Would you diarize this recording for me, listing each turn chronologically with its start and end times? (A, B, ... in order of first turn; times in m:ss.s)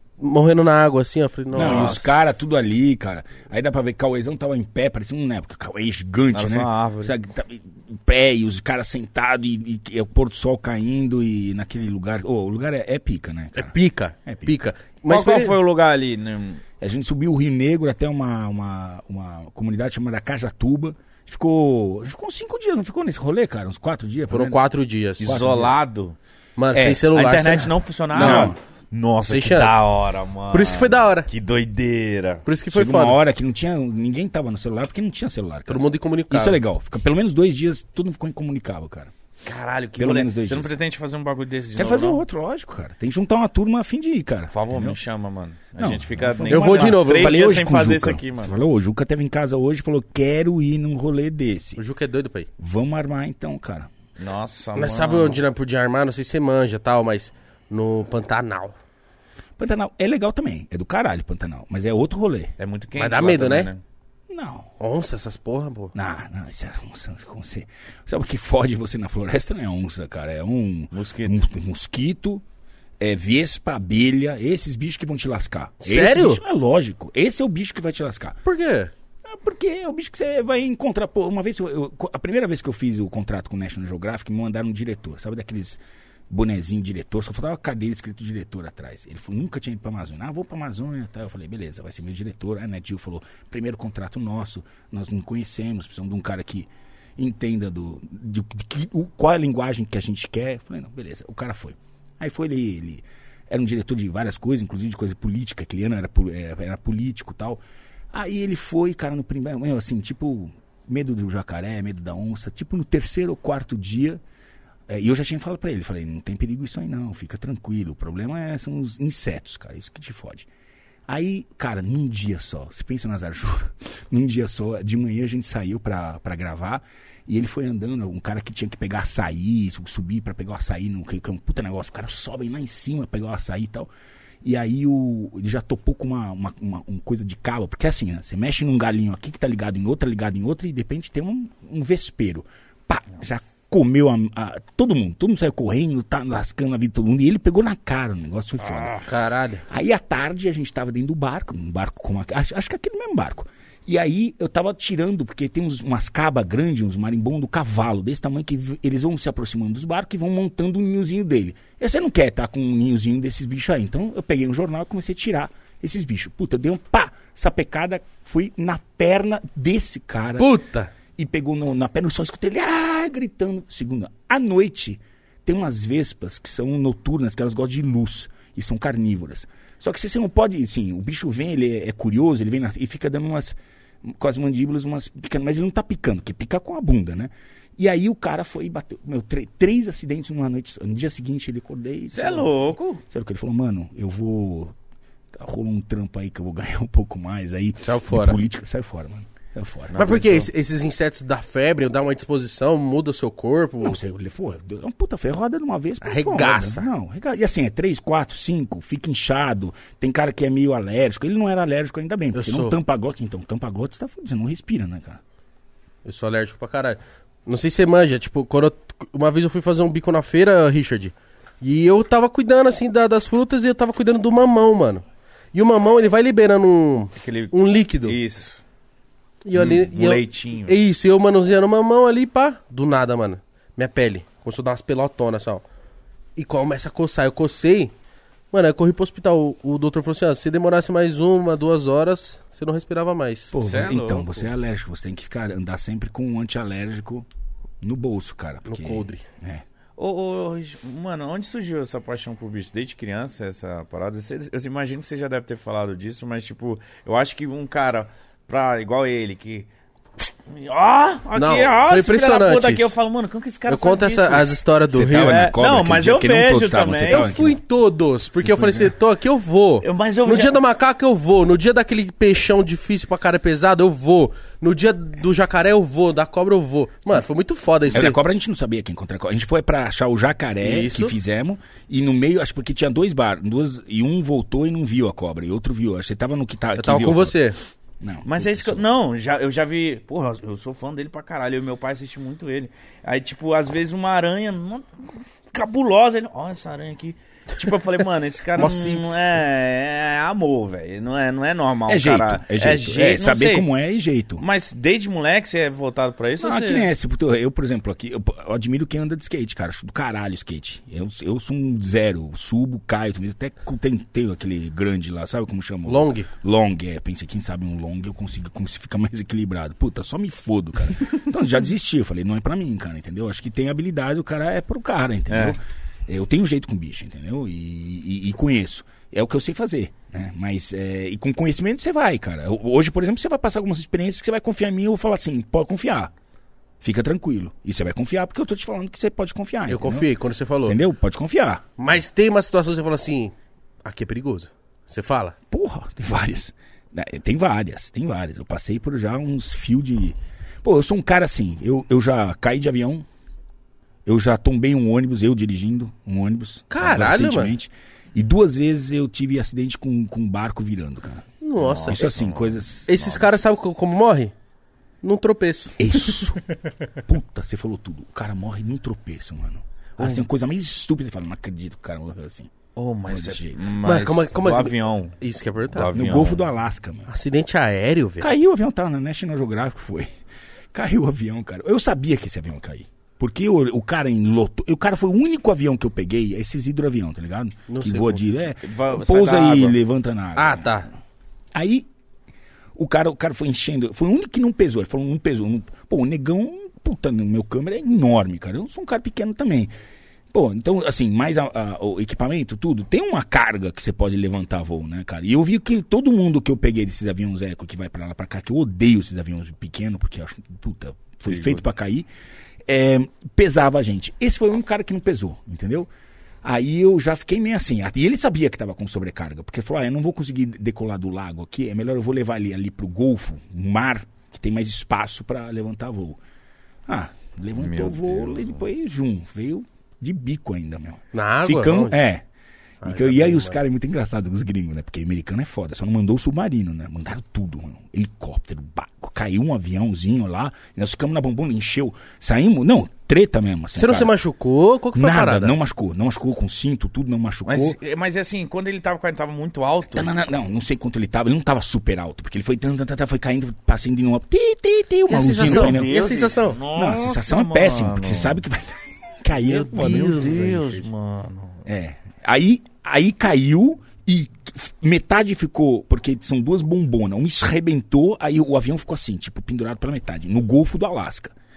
0:00.2-0:02.2 A
0:01.5-0:13.8 B
0:01.6-0:02.0 C
0:06.3-0:07.2 C
0:13.6-0:15.6 A
0:14.3-0:14.5 B
0:15.1-0:16.6 C
0:16.8-0:24.6 B
0:24.3-0:25.4 A
0:25.2-0:26.2 C
0:25.2-0:25.8 B
0:26.6-0:28.6 A
0:26.7-0:32.4 C
0:28.2-0:28.6 B
0:29.3-0:29.8 A
0:30.5-0:31.3 A
0:32.4-0:33.2 A
0:32.7-0:39.1 B
0:35.7-0:36.6 A
0:39.4-0:42.2 C
0:40.0-0:40.8 B
0:41.8-0:45.0 B
0:44.5-0:48.6 C
0:45.8-0:51.8 B
0:46.5-0:47.4 A
0:51.8-0:52.5 A
0:52.6-0:53.9 B
0:54.2-0:55.4 C
0:54.8-0:58.8 A
0:59.6-1:02.5 B
1:02.6-1:03.8 C
1:03.0-1:03.7 A
1:04.3-1:04.7 B
1:04.8-1:06.0 A
1:05.9-1:12.4 B
1:10.9-1:11.4 C
1:13.0-1:18.4 B
1:15.8-1:16.4 A
1:18.4-1:18.9 A
1:19.2-1:54.2 B
1:54.9-2:00.5 B
2:01.1-2:13.9 B
2:14.4-2:29.1 B
2:28.6-2:29.6 A
2:29.7-2:50.5 B
2:50.4-2:50.9 A
2:51.2-3:14.7 B
3:12.1-3:13.0 C
3:15.3-3:20.2 B
3:17.8-3:18.4 A
3:19.9-3:20.5 C
3:20.0-3:24.0 A
3:23.8-3:35.2 B
3:26.0-3:26.9 A
3:32.3-3:32.8 A
3:36.0-3:45.0 A
3:45.5-3:48.2 A
3:47.2-3:48.6 C
3:49.4-3:55.6 A
3:49.6-3:50.8 C
3:56.4-3:57.9 A
3:58.5-4:03.6 A
4:03.5-4:07.3 B
4:03.6-4:04.3 C
4:07.8-4:09.6 B
4:08.7-4:09.2 A
4:10.0-4:19.7 C
4:20.5-4:24.6 C
4:21.4-4:22.9 A
4:23.7-4:25.5 A
4:24.9-4:27.6 B
4:25.2-4:27.4 C
4:27.1-4:38.2 A
4:28.4-4:28.9 B
4:29.8-4:30.6 C
4:37.9-4:47.4 B
4:40.6-4:41.2 A
4:46.8-4:47.6 A
4:48.0-4:48.8 B
4:48.3-5:03.7 C
4:58.6-4:59.1 A
5:01.9-5:04.4 B
5:04.4-5:06.9 C
5:06.4-5:36.1 B
5:15.9-5:16.3 A
5:25.3-5:25.6 C
5:36.8-5:40.1 B
5:39.7-5:40.8 A
5:40.7-5:41.7 B
5:41.8-5:45.4 A
5:45.5-5:53.1 B
5:54.1-6:01.3 B
5:56.7-5:57.5 A
6:01.4-6:02.1 A
6:01.6-6:03.2 C
6:01.8-6:03.2 B
6:02.9-6:04.3 A
6:05.0-6:05.8 A
6:05.8-6:06.4 B
6:07.0-6:12.5 B
6:12.8-6:15.1 C
6:13.1-6:13.7 B
6:13.8-6:16.0 A
6:15.7-6:16.4 C
6:15.9-6:17.1 B
6:17.1-6:18.3 A
6:18.2-6:20.1 B
6:20.7-6:30.8 B
6:27.7-6:28.2 A
6:28.6-6:29.8 C
6:30.4-6:30.9 A
6:31.5-6:31.9 B
6:32.8-6:39.7 B
6:40.3-6:52.1 B
6:51.3-6:51.6 C
6:52.7-6:55.9 B
6:56.4-7:06.2 B
7:06.9-7:12.2 B
7:07.6-7:08.6 C
7:11.1-7:12.0 A
7:12.8-7:13.6 A
7:12.8-7:24.1 B
7:23.8-7:25.6 A
7:24.9-7:27.8 B
7:27.5-7:30.1 C
7:29.9-7:35.9 B
7:35.1-7:36.6 A
7:35.4-7:38.4 C
7:36.7-7:40.6 B
7:39.3-7:40.9 A
7:39.8-7:41.6 C
7:41.6-7:51.3 B